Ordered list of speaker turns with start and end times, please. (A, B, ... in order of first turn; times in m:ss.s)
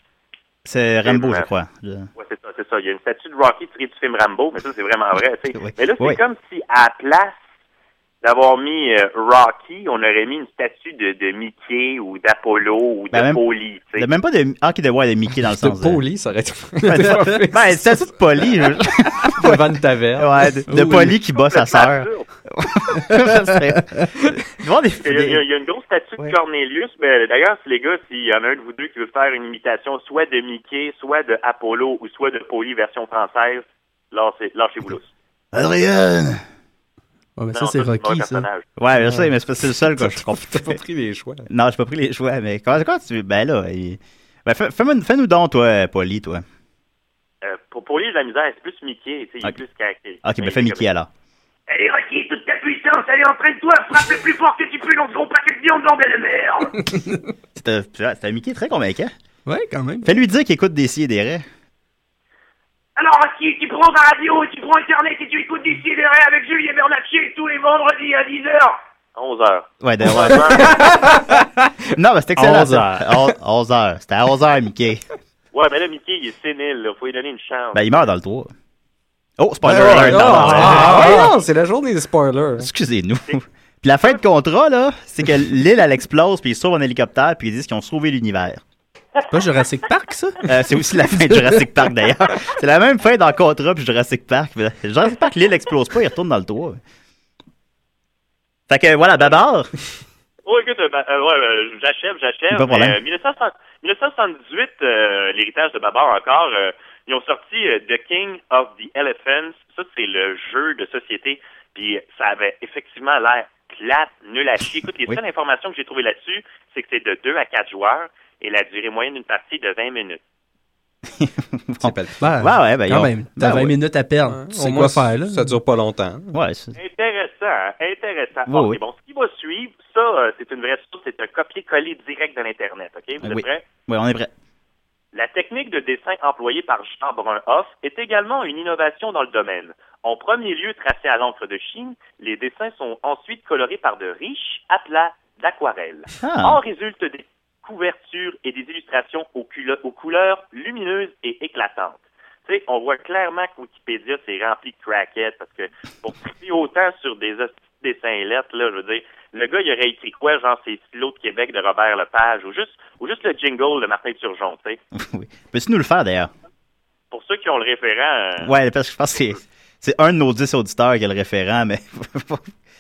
0:00.6-0:02.1 A
0:01.0-0:01.5 B
0:02.2-0:07.4 B
0:05.5-0:06.2 A
0:08.2-0:14.1 B
0:13.1-0:16.0 A
0:15.6-0:17.9 C
0:16.9-0:19.6 A
0:19.3-0:20.5 C
0:20.2-0:25.4 A
0:20.7-0:21.2 D
0:21.2-0:22.3 B
0:25.0-0:35.1 B
0:35.5-0:36.4 A
0:37.4-0:38.5 D
0:37.5-0:38.7 B
0:38.8-0:40.8 A
0:40.0-0:41.5 C
0:41.5-0:46.4 A
0:47.4-0:50.9 B
0:50.2-0:51.1 A
0:53.2-0:53.6 E
0:54.5-0:55.7 E
0:57.6-0:59.1 A
0:59.5-1:00.1 D
1:00.0-1:01.4 A
1:06.1-1:06.5 E
1:09.2-1:10.7 B
1:09.8-1:10.9 A
1:10.6-1:11.7 C
1:12.0-1:15.0 A
1:12.4-1:13.3 C
1:15.5-1:17.8 B
1:17.7-1:18.5 A
1:19.4-1:21.3 A
1:19.7-1:22.7 C
1:19.7-1:21.2 D
1:22.6-1:28.6 A
1:29.3-1:30.4 D
1:30.4-1:36.8 A
1:31.3-1:31.6 D
1:38.7-1:39.7 A
1:40.4-2:00.2 B
1:42.5-1:43.0 A
2:01.2-2:03.7 A
2:01.8-2:02.2 C
2:02.2-2:05.6 D
2:04.3-2:06.4 C
2:06.3-2:06.8 A
2:06.8-2:13.6 B
2:08.5-2:08.8 A
2:13.2-2:14.3 A
2:15.1-2:44.8 B
2:26.2-2:26.6 A
2:45.0-2:46.3 A
2:47.1-2:48.5 B
2:48.4-2:52.5 A